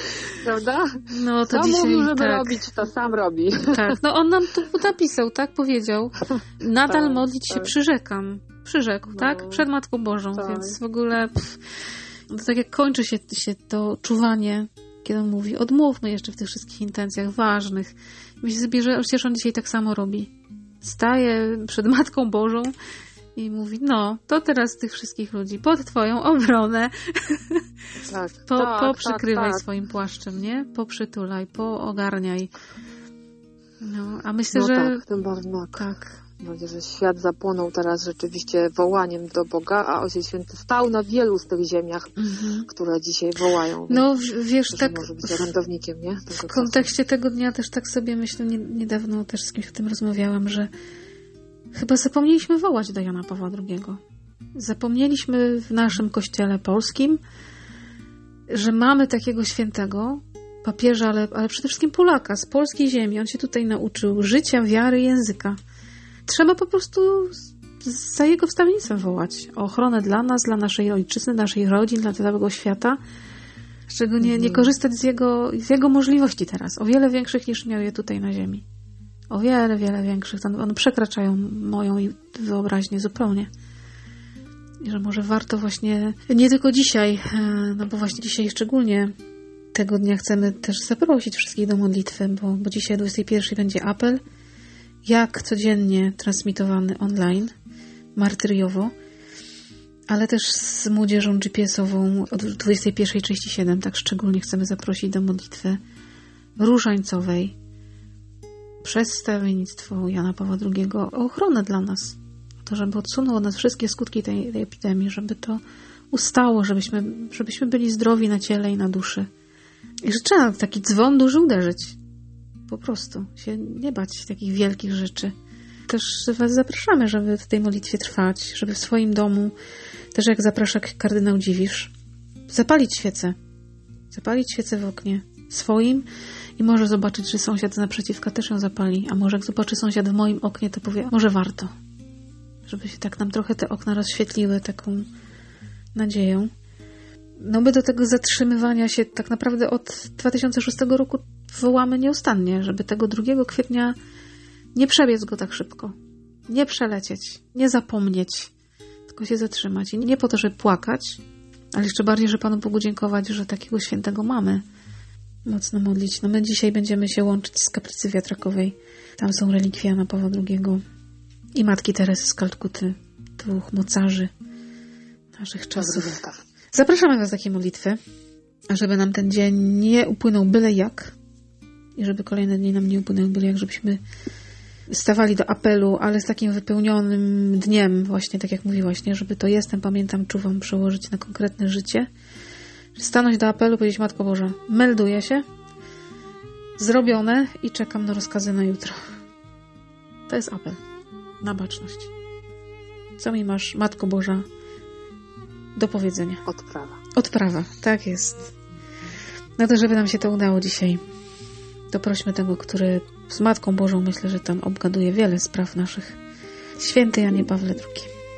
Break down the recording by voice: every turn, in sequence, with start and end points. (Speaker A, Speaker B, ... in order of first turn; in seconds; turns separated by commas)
Speaker A: 0.3-0.9, Speaker B: 1.1-2.6, Speaker A: 1.4-3.9, Speaker B: 3.7-11.6, Speaker A: 6.9-7.7, Speaker A: 9.1-9.7, Speaker A: 10.3-10.8, Speaker B: 12.3-20.3, Speaker B: 20.8-22.7, Speaker B: 23.4-27.6, Speaker A: 28.1-29.6, Speaker B: 28.5-32.5, Speaker B: 33.8-35.0, Speaker A: 34.5-42.1, Speaker B: 42.2-42.7, Speaker A: 42.7-44.1, Speaker B: 43.9-45.5, Speaker A: 44.7-46.9, Speaker B: 46.3-50.7, Speaker B: 51.7-54.0, Speaker B: 54.5-57.2, Speaker B: 58.5-65.6, Speaker B: 66.3-73.0, Speaker B: 73.9-78.6, Speaker A: 74.2-74.8, Speaker B: 79.3-83.5, Speaker B: 84.8-89.1, Speaker B: 89.7-94.2, Speaker B: 95.0-97.5, Speaker B: 98.2-98.9, Speaker B: 100.1-105.8, Speaker B: 106.6-107.5, Speaker B: 108.8-115.6, Speaker B: 116.1-119.3, Speaker B: 120.0-122.0, Speaker B: 122.7-125.3, Speaker B: 125.9-129.6, Speaker B: 130.1-131.9, Speaker B: 132.5-133.4, Speaker B: 134.1-136.1, Speaker B: 136.6-141.7, Speaker B: 142.7-145.1, Speaker B: 145.9-146.5, Speaker B: 147.4-153.9, Speaker B: 154.8-155.9, Speaker B: 156.5-158.5, Speaker B: 159.1-161.2, Speaker B: 161.7-164.6, Speaker B: 165.4-170.8, Speaker B: 171.6-174.3, Speaker B: 175.4-176.2, Speaker A: 175.8-176.4, Speaker B: 176.7-178.0, Speaker B: 178.7-181.2, Speaker B: 182.0-184.0, Speaker B: 184.9-192.1, Speaker B: 192.9-195.4, Speaker B: 196.8-199.0, Speaker B: 200.3-200.8, Speaker B: 201.4-202.1, Speaker B: 203.2-204.4, Speaker B: 205.8-206.4, Speaker A: 206.4-207.0, Speaker B: 207.1-208.5, Speaker B: 209.6-211.0, Speaker B: 211.9-216.2, Speaker B: 216.8-218.1